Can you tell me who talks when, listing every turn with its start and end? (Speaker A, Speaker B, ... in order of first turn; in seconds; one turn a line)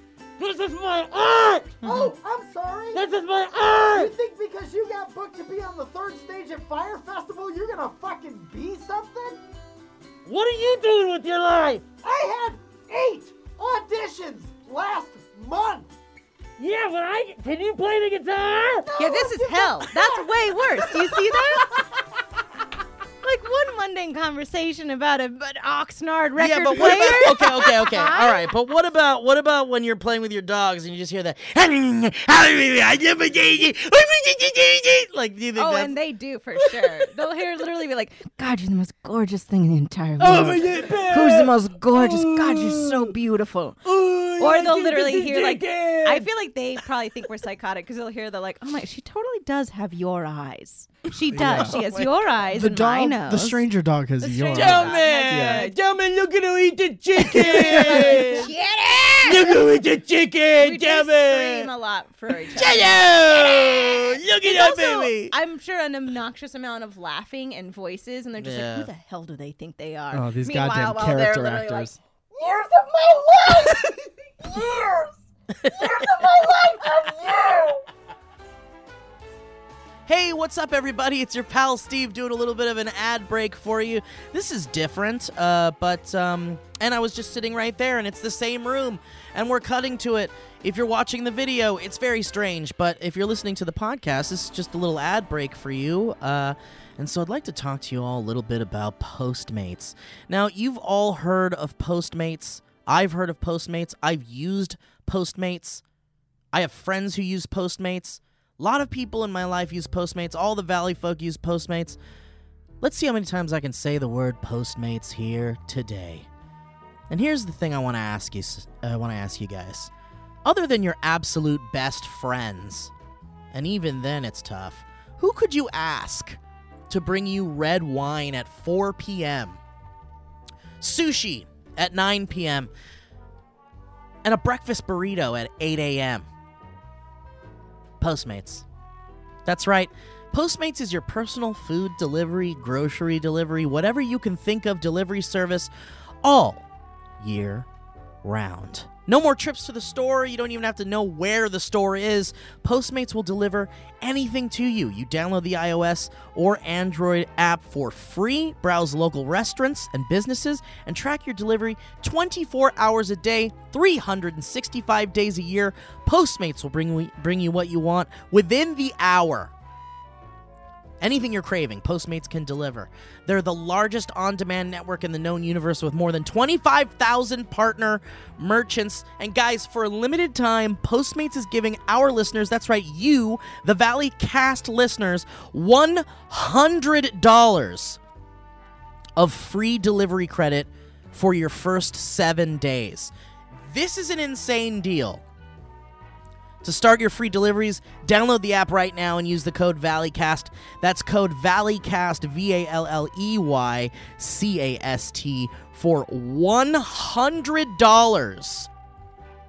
Speaker A: 0.4-1.8
Speaker B: 1.8-3.0
Speaker C: 1.8-2.1
Speaker A: 2.9-4.1
Speaker B: 3.9-9.4
Speaker A: 10.2-11.8
Speaker B: 12.0-15.9
Speaker A: 16.6-18.9
Speaker B: 18.8-20.1
Speaker C: 19.0-21.7
Speaker C: 23.2-28.5
Speaker D: 26.4-35.9
Speaker C: 35.5-43.8
Speaker D: 40.2-43.1
Speaker B: 40.4-40.8
Speaker D: 43.8-46.2
Speaker C: 44.4-53.6
Speaker B: 51.3-51.8
Speaker D: 51.4-52.1
Speaker B: 52.5-55.7
Speaker C: 54.2-55.8
Speaker D: 54.5-58.5
Speaker B: 57.3-58.4
Speaker C: 57.3-59.6
Speaker D: 59.2-61.7
Speaker C: 60.6-73.9
Speaker D: 62.5-65.3
Speaker D: 68.4-68.9
Speaker B: 70.1-72.0
Speaker C: 74.4-75.0
Speaker D: 75.6-76.0
Speaker C: 76.1-77.4
Speaker D: 80.1-105.8
Speaker D: 106.5-112.0
Speaker D: 112.8-116.3
Speaker D: 117.1-119.9
Speaker D: 120.4-122.9
Speaker D: 123.5-126.4
Speaker D: 126.9-129.6
Speaker D: 130.8-132.7
Speaker D: 134.2-136.3
Speaker D: 138.0-138.6
Speaker D: 139.4-145.7
Speaker D: 146.2-146.6
Speaker D: 147.2-147.7
Speaker D: 148.2-169.5
Speaker D: 171.0-188.0
Speaker D: 189.2-193.1
Speaker D: 193.6-195.2
Speaker D: 196.6-208.7